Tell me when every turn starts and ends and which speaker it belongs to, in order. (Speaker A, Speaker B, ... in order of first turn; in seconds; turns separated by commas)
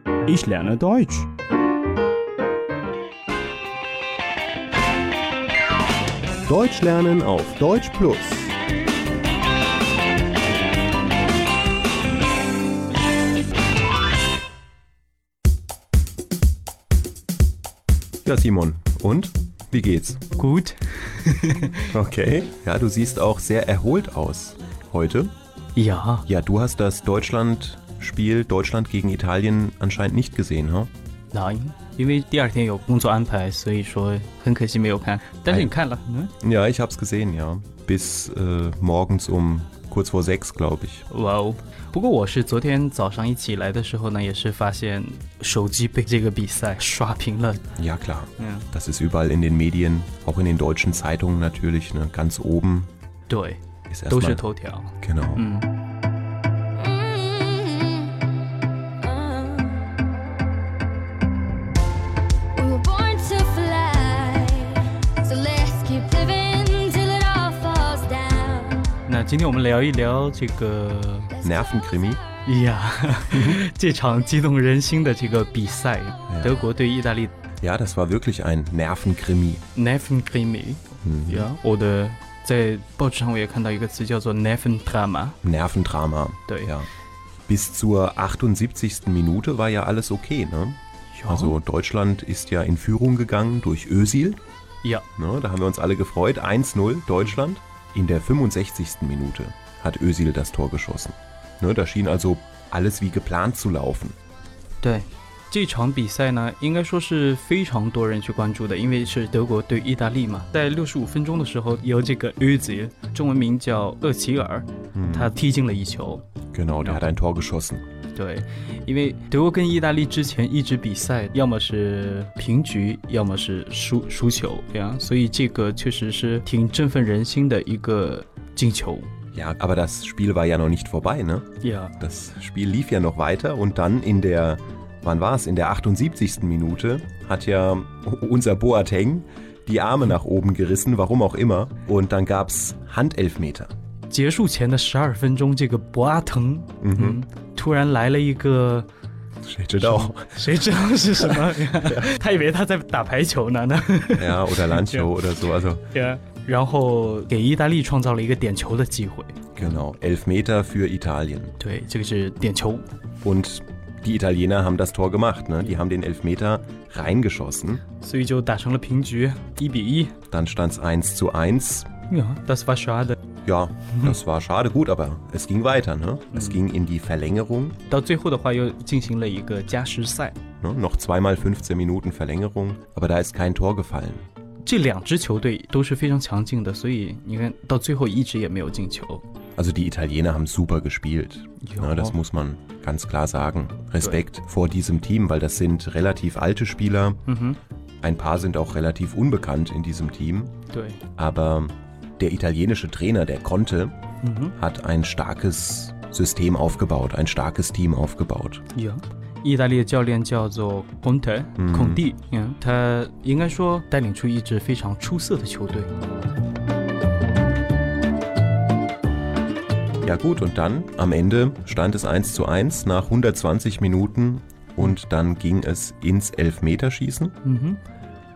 Speaker A: 0.2-1.3, Speaker B: 6.5-8.5, Speaker B: 18.2-20.2, Speaker A: 20.4-21.9, Speaker B: 21.9-25.3, Speaker A: 25.8-26.3, Speaker B: 26.2-30.9, Speaker A: 31.3-36.3, Speaker B: 35.5-35.7, Speaker B: 36.4-41.1, Speaker A: 41.1-47.7, Speaker B: 47.8-52.9, Speaker A: 48.4-48.7, Speaker A: 53.3-55.7, Speaker B: 53.9-54.4, Speaker B: 55.0-55.5, Speaker C: 56.8-58.2, Speaker C: 59.0-59.9, Speaker C: 62.5-69.0, Speaker A: 69.1-71.4, Speaker B: 71.4-72.2, Speaker A: 72.4-77.3, Speaker B: 73.3-73.6, Speaker B: 76.3-76.7, Speaker B: 77.6-79.6, Speaker A: 79.7-85.4, Speaker B: 81.0-81.5, Speaker B: 85.4-86.9, Speaker A: 86.5-86.7, Speaker B: 87.5-94.4, Speaker A: 91.1-91.5, Speaker B: 95.2-104.2, Speaker A: 104.8-116.2, Speaker B: 114.9-115.3, Speaker B: 116.5-117.8, Speaker A: 118.1-129.1, Speaker B: 129.3-131.5, Speaker A: 131.6-132.0, Speaker B: 132.0-143.7, Speaker A: 144.1-148.9, Speaker B: 146.8-147.2, Speaker B: 149.4-150.6, Speaker A: 149.8-155.1, Speaker B: 154.2-155.8, Speaker A: 155.9-159.8, Speaker B: 159.6-161.6, Speaker A: 161.6-162.9, Speaker B: 163.2-167.8, Speaker A: 168.0-170.2, Speaker B: 170.3-171.9, Speaker A: 172.1-173.2, Speaker B: 173.4-177.8, Speaker A: 176.3-176.6, Speaker A: 177.9-180.4, Speaker B: 180.6-184.2, Speaker A: 184.6-189.2, Speaker B: 189.6-197.2, Speaker A: 191.6-192.2, Speaker A: 197.2-197.6, Speaker B: 198.0-200.5, Speaker A: 200.7-201.0, Speaker B: 201.2-203.9, Speaker A: 204.2-204.6, Speaker B: 204.6-208.6, Speaker A: 208.7-215.9, Speaker B: 211.6-212.0, Speaker B: 220.0-227.3, Speaker A: 227.4-227.8